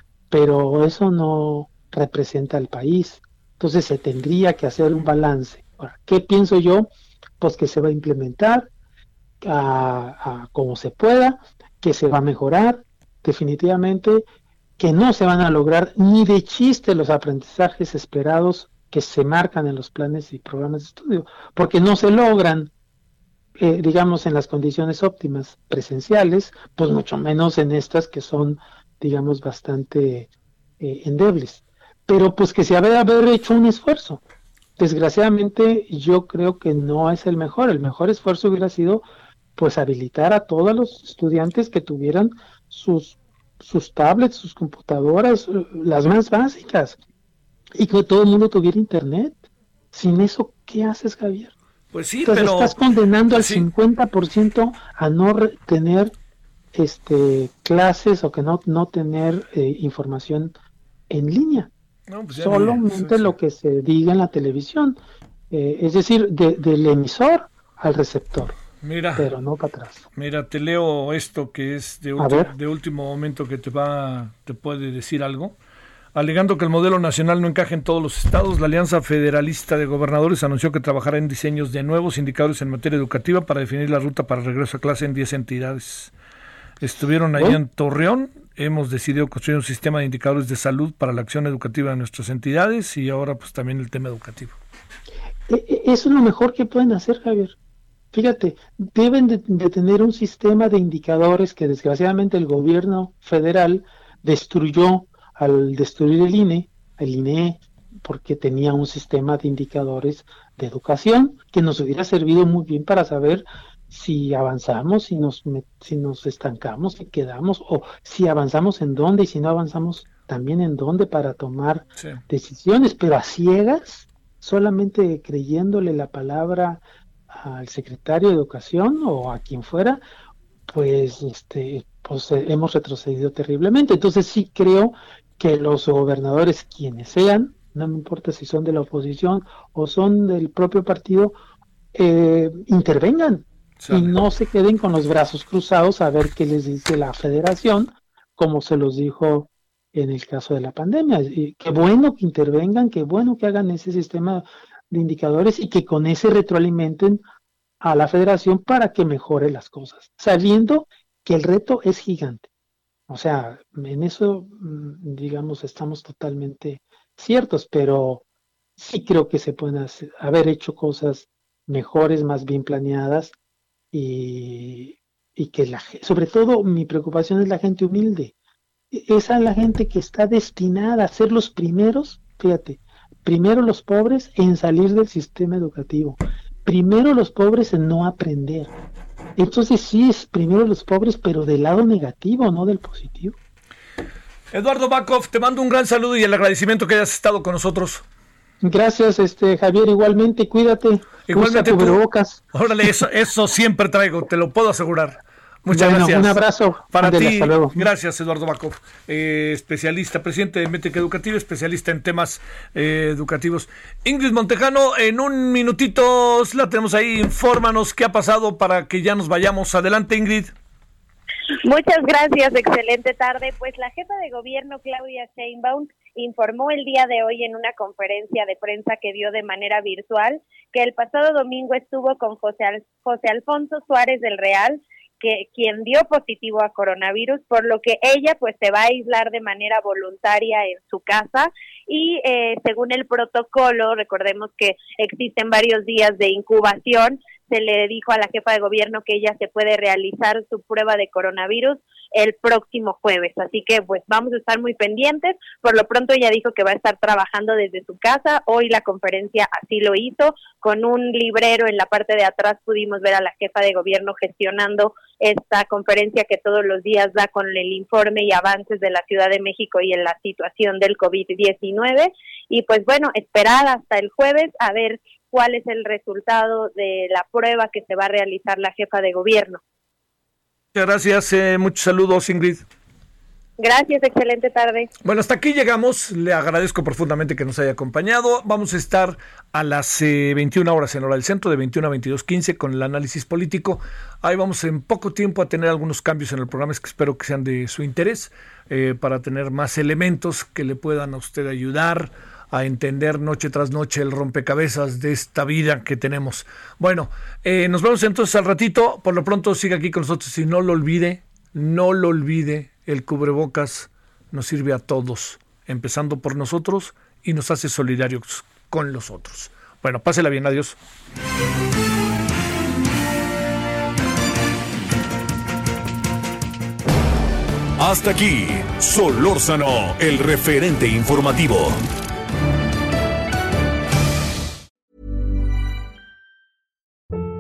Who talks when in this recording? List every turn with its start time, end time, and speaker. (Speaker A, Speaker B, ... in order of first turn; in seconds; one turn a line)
Speaker A: 0.3-6.9
Speaker A: 7.4-8.7
Speaker A: 9.4-14.2
Speaker A: 14.8-22.7
Speaker A: 23.6-30.3
Speaker A: 30.8-34.2
Speaker A: 34.8-39.0
Speaker A: 39.6-47.0
Speaker A: 47.8-49.4
Speaker A: 49.9-51.5
Speaker B: 51.9-52.8
Speaker A: 52.2-56.1
Speaker B: 53.3-53.7
Speaker A: 56.8-60.5
Speaker A: 61.1-61.7
Speaker B: 62.1-63.3
Speaker A: 62.3-65.0
Speaker A: 65.5-68.6
Speaker B: 68.8-69.3
Speaker A: 69.2-70.0
Speaker B: 70.2-75.6
Speaker A: 72.2-72.5
Speaker B: 76.2-86.1
Speaker B: 86.8-94.6
Speaker A: 95.5-97.6
Speaker A: 98.1-130.0
Speaker A: 130.7-141.3
Speaker A: 141.9-157.2
Speaker B: 143.8-144.2
Speaker A: 157.8-162.5
Speaker A: 163.1-168.2
Speaker A: 168.8-173.3
Speaker A: 173.9-178.3
Speaker A: 178.9-188.7
Speaker A: 189.4-193.4
Speaker B: 194.5-198.0
Speaker A: 198.6-202.4
Speaker B: 201.3-202.0
Speaker B: 202.5-206.4
Speaker A: 205.7-207.8
Speaker B: 206.9-220.5
Speaker C: 221.6-279.6
Speaker B: 280.7-282.6
Speaker C: 283.6-284.9
Speaker B: 285.0-320.8
Speaker D: 327.8-331.8